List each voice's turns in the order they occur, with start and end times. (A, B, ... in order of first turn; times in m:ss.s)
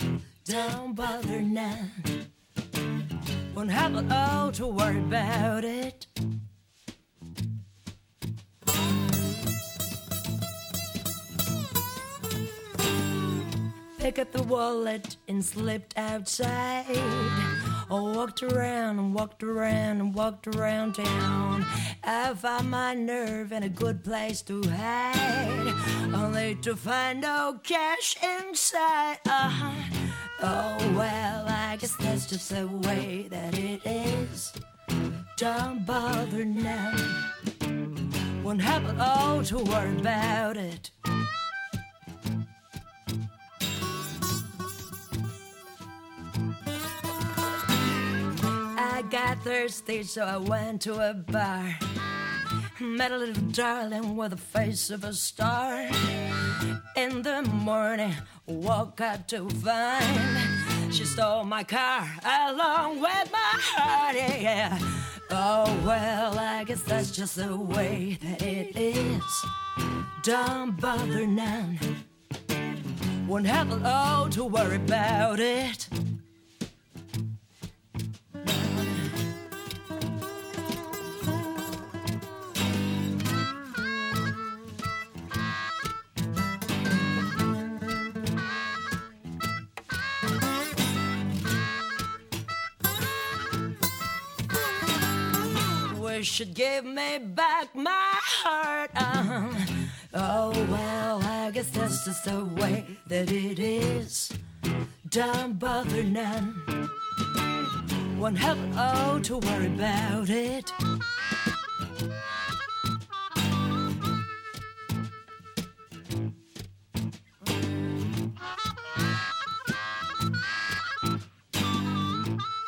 0:00.4-0:02.2 A
0:03.5-0:06.1 A
0:14.0-0:34.6 A
0:35.3-0:37.3 A
0:38.4-0:40.9 A
0:48.7-0:51.8 A
0:52.8-0:56.3 A
0:56.9-1:09.5 A
1:10.2-1:12.0 A
1:13.2-1:15.9 A
1:18.5-1:18.9 A
1:35.7-1:44.4 A
1:45.1-1:46.8 A
1:48.1-1:50.7 A